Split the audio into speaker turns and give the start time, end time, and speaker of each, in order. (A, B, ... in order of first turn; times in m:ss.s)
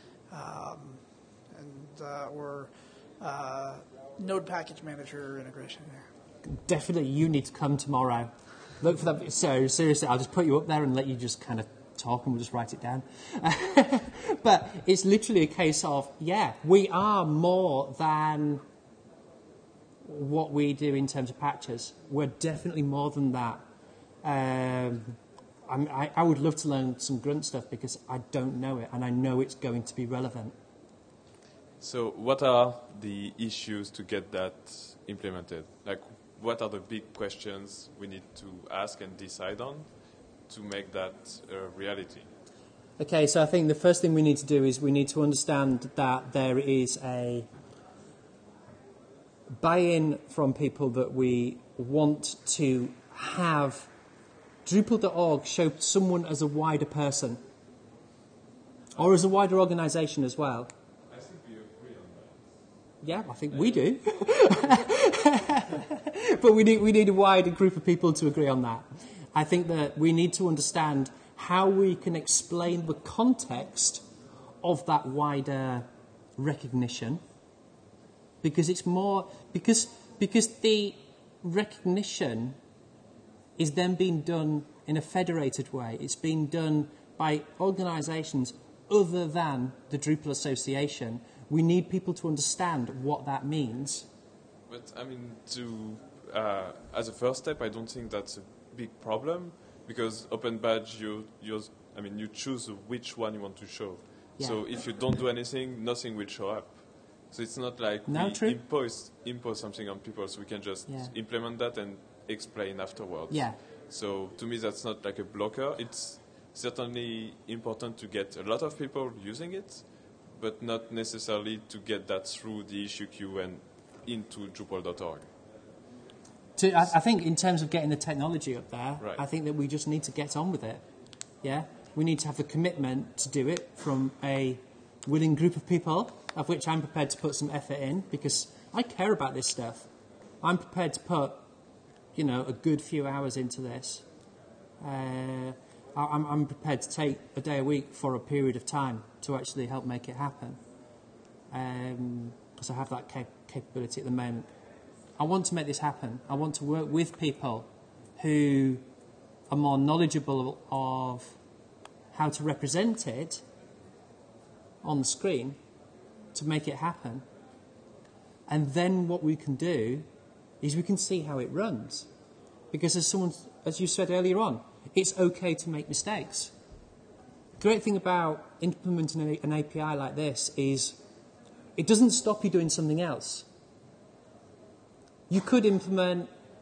0:00.3-0:06.1 A
0:06.4-0:18.6 B
0:20.0-0:23.6 B
0:24.2-0:30.6 B
0:31.8-0:42.3 C
0:43.0-0:47.5 B
0:49.5-0:53.9 B
0:54.6-0:57.4 B
0:59.0-1:00.7 B
1:01.1-1:02.6 C
1:03.0-1:14.1 B
1:03.5-1:03.9 C
1:04.4-1:04.7 C
1:14.6-1:17.2 B
1:18.4-1:22.6 B
1:23.6-1:34.1 B
1:34.7-2:05.3 C
1:44.4-1:44.6 B
1:48.1-1:48.6 B
1:50.9-1:51.1 B
1:53.3-1:53.6 B
2:06.6-2:10.8 B
2:11.4-2:19.9 B
2:20.4-2:21.5 B
2:22.2-2:24.1 B
2:24.8-2:30.6 B
2:31.5-2:34.5 B
2:35.2-2:38.8 B
2:39.5-2:41.4 B
2:42.1-2:43.4 B
2:44.8-2:45.6 B
2:46.3-2:47.2 B
2:48.5-2:50.1 B
2:50.6-2:52.1 B
2:52.7-2:56.5 B
2:57.6-3:01.0 B
3:01.8-3:03.5 B
3:05.3-3:06.3 B